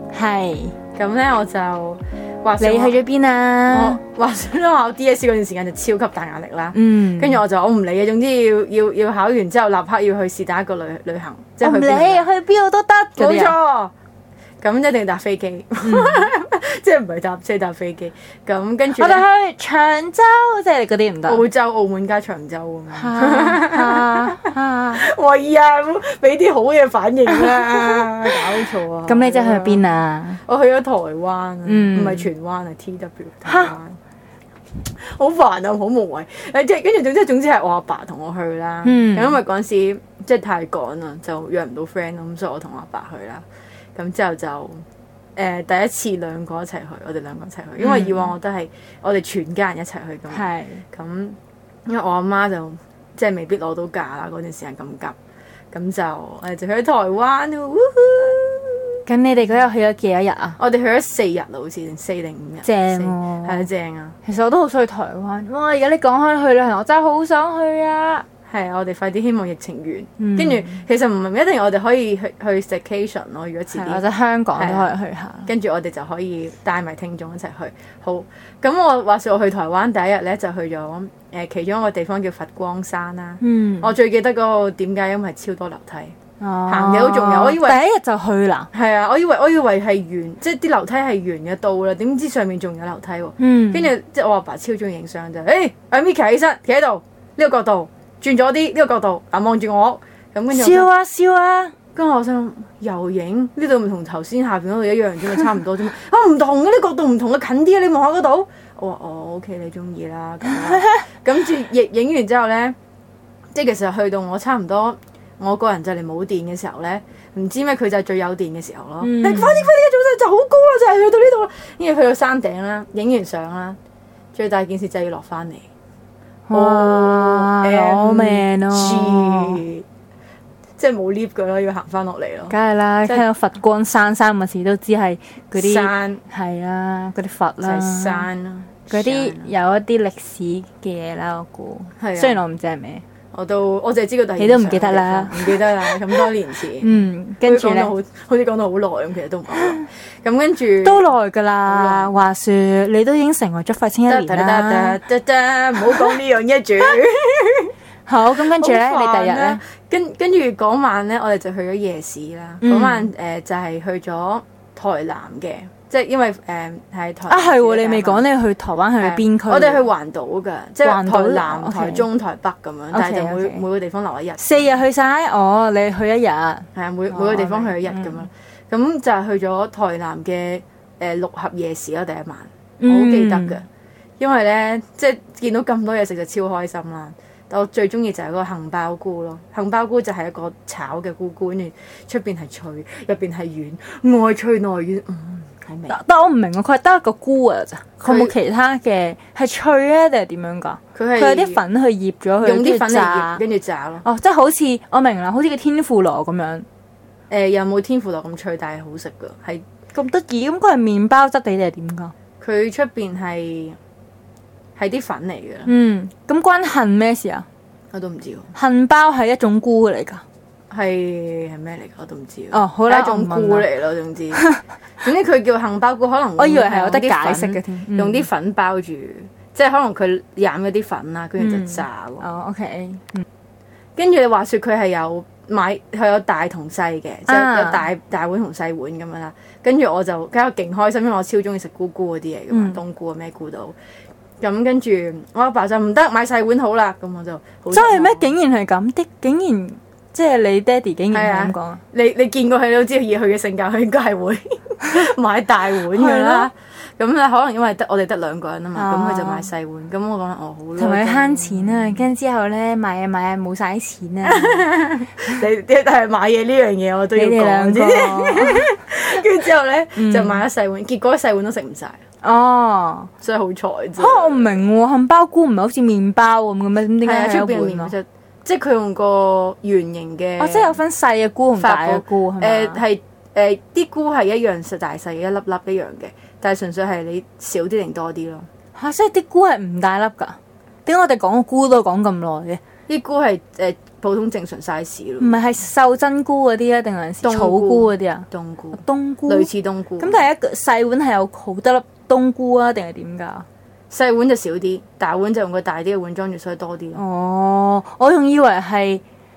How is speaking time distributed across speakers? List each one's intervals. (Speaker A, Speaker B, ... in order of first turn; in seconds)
Speaker A: 0.1-0.8, 2.6-4.0, 6.7-7.4, 11.6-13.6, 15.8-16.3, 18.9-21.4, 22.9-25.0, 27.4-28.3, 29.1-30.4, 31.6-32.3, 33.4-33.7, 38.8-39.4, 47.8-48.3, 50.3-50.8, 59.0-60.6, 62.6-63.6, 64.2-68.2, 70.2-70.8, 73.7-75.5, 83.4-83.9, 86.4-88.7, 93.4-93.9, 100.5-101.7, 119.0-119.7, 126.5-129.6, 132.5-138.3, 138.9-143.0, 144.4-146.2, 146.8-147.9, 150.8-155.0, 158.1-159.6, 162.6-163.1, 167.3-169.8, 170.8-172.1, 172.9-173.6, 174.4-178.3, 182.8-183.6, 195.9-203.4, 204.0-206.7, 209.9-212.1, 215.7-217.4, 218.5-220.2, 222.5-223.7, 224.3-224.6, 226.4-228.3, 231.4-233.2, 237.3-237.8, 242.5-242.8, 247.7-251.8, 255.9-256.5, 258.7-259.5, 260.8-264.7, 267.1-268.7, 269.9-270.4, 272.2-273.1, 274.0-277.9, 280.4-282.8, 288.7-292.6, 295.2-303.4, 306.9-309.0
Speaker B: 0.9-3.0, 3.7-12.3, 13.2-13.9, 14.6-19.2, 21.3-34.0, 34.9-44.8, 45.4-55.1, 55.7-59.0, 60.6-64.2, 68.5-74.0, 74.5-74.9, 75.5-86.1, 86.7-87.8, 88.7-100.9, 101.9-112.8, 113.5-123.8, 124.3-125.7, 126.5-129.8, 130.8-132.5, 135.6-136.2, 137.6-139.5, 142.0-142.4, 143.3-151.1, 151.7-152.2, 154.1-157.7, 158.4-168.2, 169.0-174.7, 176.7-183.7, 184.2-196.0, 198.0-198.3, 200.9-201.6, 202.4-204.0, 207.3-209.6, 212.4-213.8, 214.8-215.7, 217.9-218.5, 220.7-224.4, 225.0-232.2, 234.0-243.7, 244.4-248.3, 251.1-262.0, 264.2-272.0, 273.2-274.6, 277.0-280.8, 281.6-288.5, 292.9-295.3, 297.2-300.3, 303.9-307.0